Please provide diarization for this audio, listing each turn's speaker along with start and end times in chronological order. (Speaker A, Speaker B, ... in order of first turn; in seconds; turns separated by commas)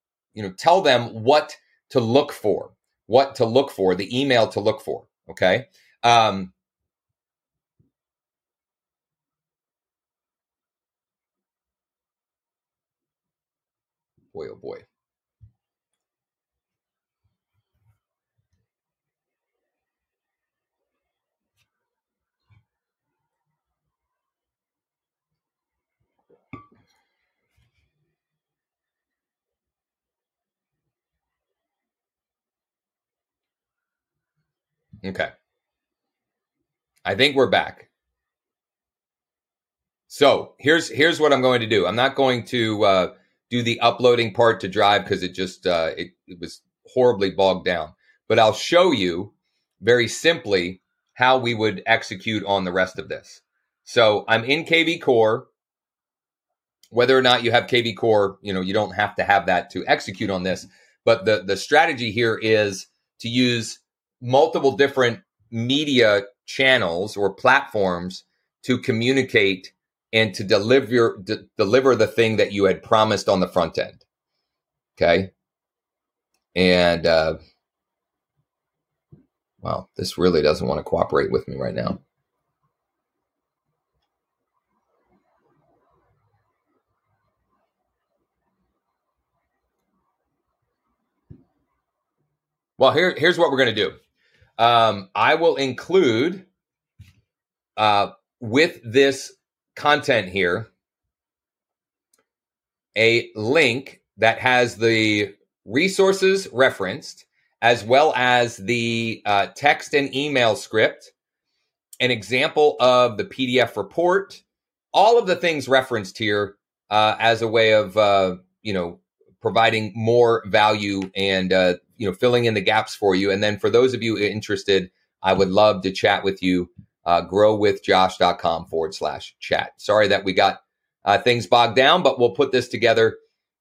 Speaker A: 0.3-6.5, Speaker A: 14.3-14.9, Speaker A: 35.0-35.3, Speaker A: 37.0-37.9, Speaker A: 40.1-55.5, Speaker A: 56.9-74.0, Speaker A: 75.0-75.3, Speaker A: 76.5-77.4, Speaker A: 79.6-82.0, Speaker A: 92.8-94.0, Speaker A: 94.6-96.5, Speaker A: 97.8-100.7, Speaker A: 103.0-111.1, Speaker A: 112.0-114.4, Speaker A: 114.9-133.2